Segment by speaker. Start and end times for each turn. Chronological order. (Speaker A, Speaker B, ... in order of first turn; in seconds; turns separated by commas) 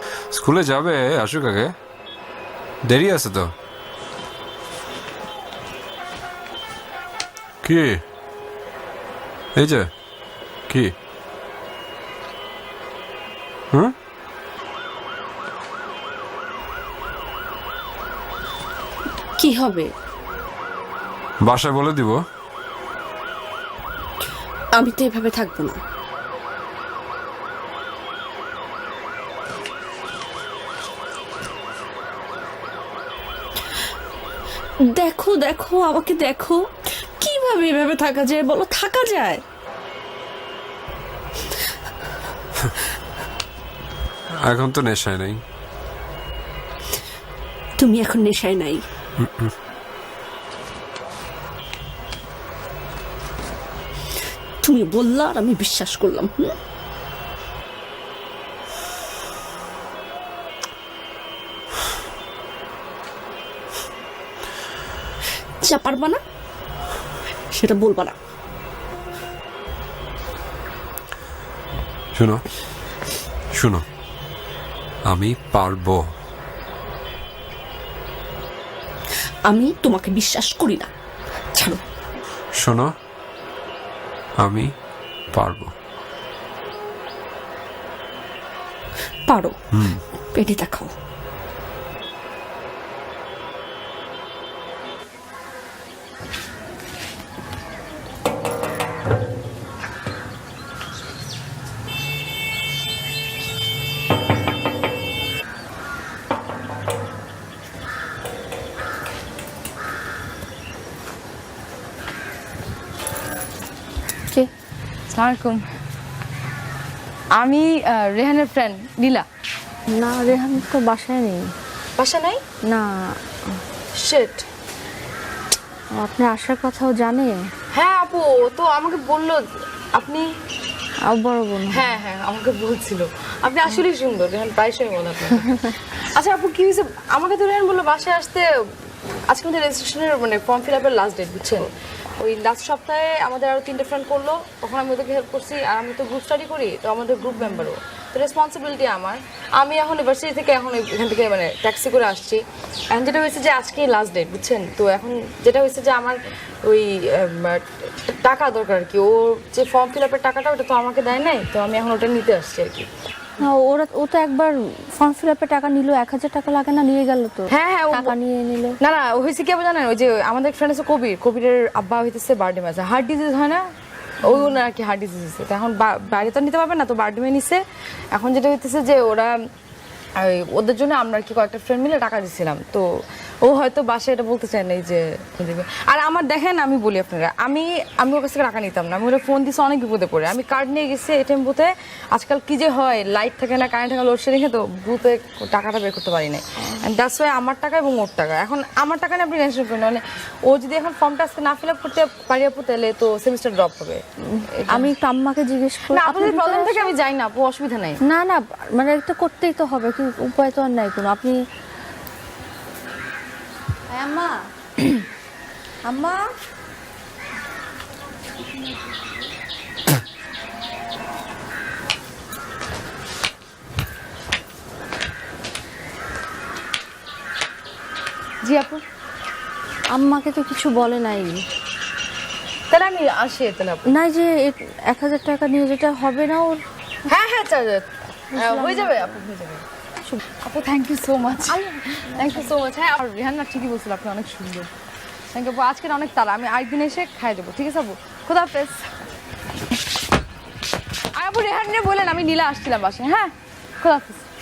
Speaker A: 0.3-1.7, Speaker A: 2.9-3.5, Speaker A: 7.6-8.0, Speaker A: 9.6-9.9, Speaker A: 10.7-10.9, Speaker B: 19.4-19.9, Speaker A: 21.4-22.2, Speaker B: 24.8-25.8, Speaker B: 34.8-36.6, Speaker B: 37.2-39.4, Speaker A: 44.4-45.4, Speaker B: 47.8-48.8, Speaker A: 49.2-49.5, Speaker B: 54.6-56.5, Speaker B: 65.6-66.2, Speaker B: 67.5-68.2, Speaker A: 72.1-72.4, Speaker A: 73.5-73.8, Speaker A: 75.1-76.1, Speaker B: 79.5-80.9, Speaker A: 82.6-82.9, Speaker A: 84.4-84.7, Speaker A: 85.3-85.7, Speaker B: 89.3-89.6, Speaker A: 89.7-90.0, Speaker B: 90.3-90.9, Speaker C: 115.1-115.6, Speaker C: 117.3-119.2, Speaker D: 119.9-121.5, Speaker C: 122.0-122.4, Speaker C: 124.0-124.5, Speaker D: 126.0-127.4, Speaker C: 127.7-130.2, Speaker D: 131.1-131.9, Speaker C: 131.7-138.7, Speaker C: 139.3-162.9, Speaker D: 163.4-168.8, Speaker C: 167.5-168.1, Speaker C: 168.8-173.6, Speaker C: 174.2-177.6, Speaker D: 174.3-174.5, Speaker C: 178.1-179.3, Speaker C: 180.2-182.8, Speaker C: 183.4-204.0, Speaker D: 204.3-206.9, Speaker C: 204.7-204.9, Speaker C: 205.9-208.0, Speaker D: 208.1-211.4, Speaker D: 213.9-214.5, Speaker D: 215.8-216.3, Speaker C: 228.4-228.8, Speaker D: 229.9-231.4, Speaker C: 232.7-233.8, Speaker D: 233.9-236.6, Speaker C: 237.1-239.6, Speaker D: 238.3-239.2, Speaker C: 240.4-244.7, Speaker D: 241.5-242.5, Speaker C: 245.3-248.9, Speaker C: 251.1-254.2